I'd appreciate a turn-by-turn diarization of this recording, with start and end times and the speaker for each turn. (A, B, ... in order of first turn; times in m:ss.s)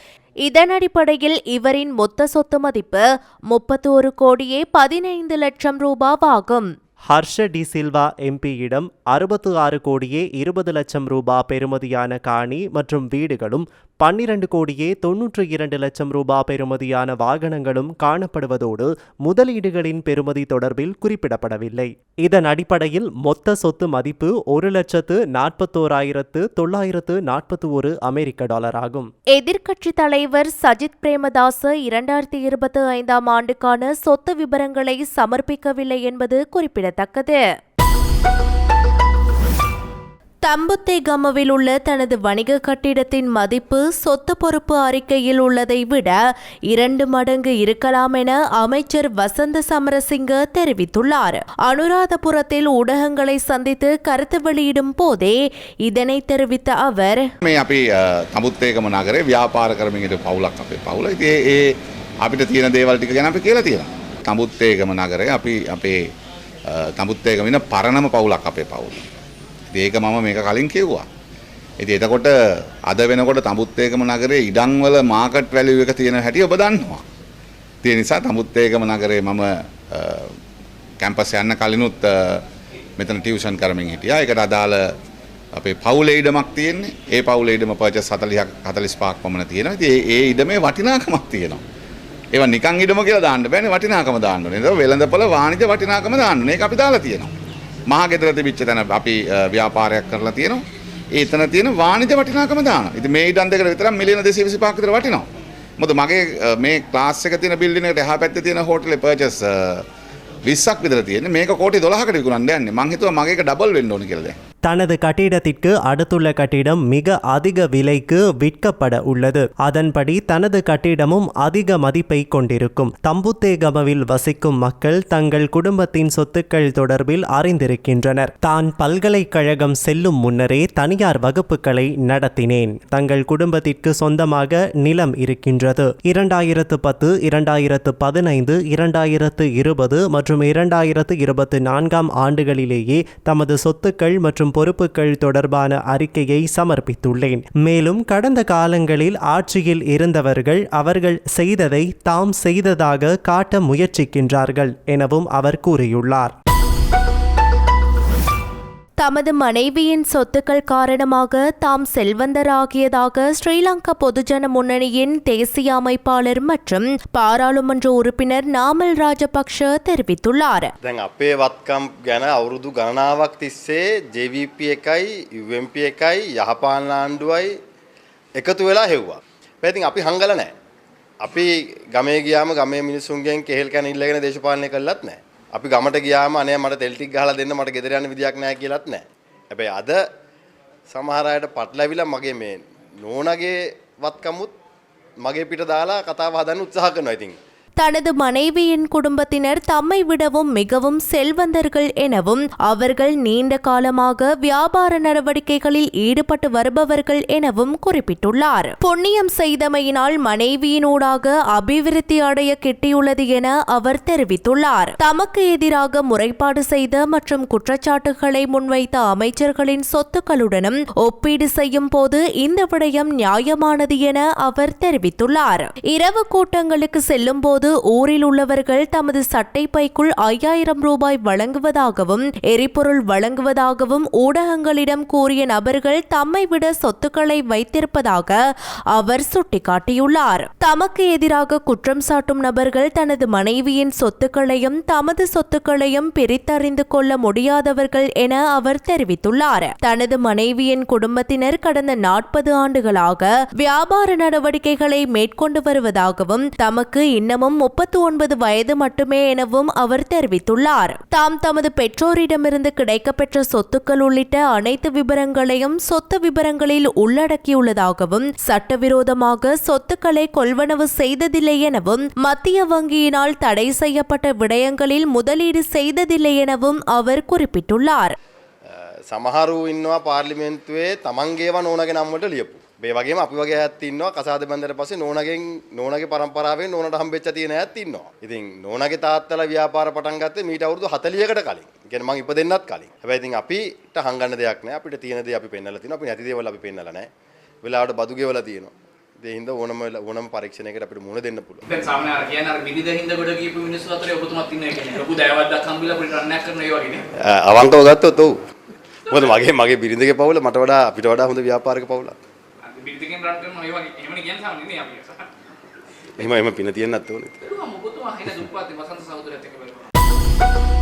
0:00.4-0:06.7 A
0:07.1-0:29.1 B
0:29.3-0:37.4 A
0:40.4-0:46.2 A
0:46.7-0:57.3 A
0:57.4-1:06.0 C
1:06.7-1:09.0 C
1:09.7-1:11.1 C
1:11.8-1:12.3 C
1:12.9-1:17.0 C
1:17.8-1:20.3 C
1:21.0-1:22.4 C
1:23.0-1:24.8 C
1:25.6-1:31.6 C
1:32.3-1:37.3 C
1:37.9-1:45.3 C
1:45.8-1:49.8 C
1:50.4-1:54.3 C
1:54.7-2:36.3 B
2:39.0-2:50.7 A
2:50.8-2:57.5 D
2:58.4-3:00.5 D
3:01.2-3:10.0 D
3:10.9-3:14.5 D
3:15.2-3:17.4 D
3:17.8-3:58.4 A
3:58.9-4:38.2 A
4:38.7-4:57.1 D
4:57.6-5:01.6 D
5:01.7-5:07.0 E
5:07.2-5:08.4 D
5:09.1-5:12.2 D
5:09.1-5:09.4 E
5:12.7-5:15.3 E
5:16.2-5:17.4 D
5:17.5-5:19.9 E